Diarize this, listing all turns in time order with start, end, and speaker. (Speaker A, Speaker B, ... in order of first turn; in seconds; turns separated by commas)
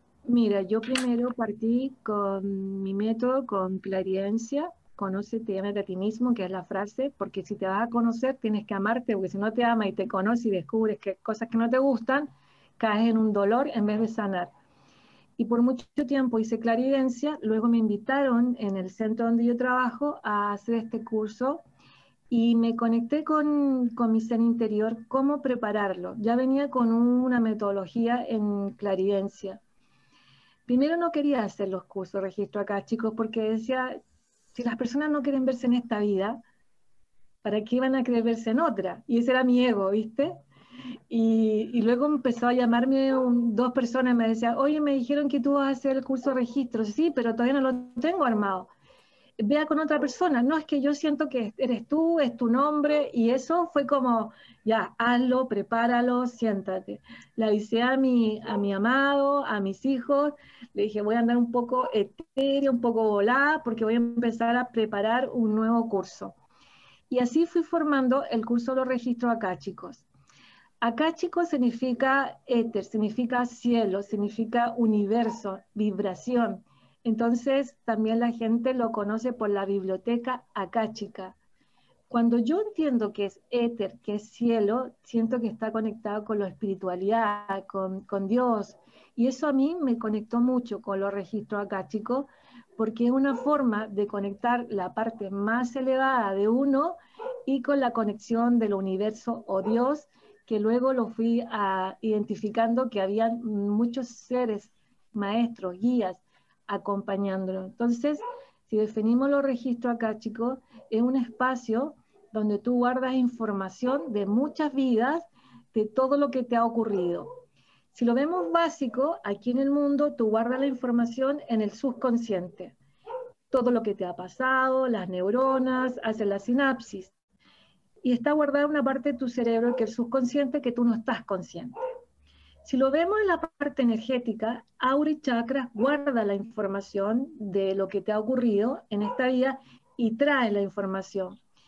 Speaker A: 0.3-14.5, Speaker A: 15.4-21.6, Speaker A: 22.3-29.6, Speaker A: 30.7-34.0, Speaker A: 34.5-36.4, Speaker A: 37.4-40.4, Speaker A: 41.1-48.7, Speaker A: 49.4-66.3, Speaker A: 67.1-70.0, Speaker A: 70.8-81.3, Speaker A: 82.1-117.3, Speaker A: 117.9-122.8, Speaker A: 123.5-127.1, Speaker A: 128.0-131.8, Speaker A: 132.7-141.4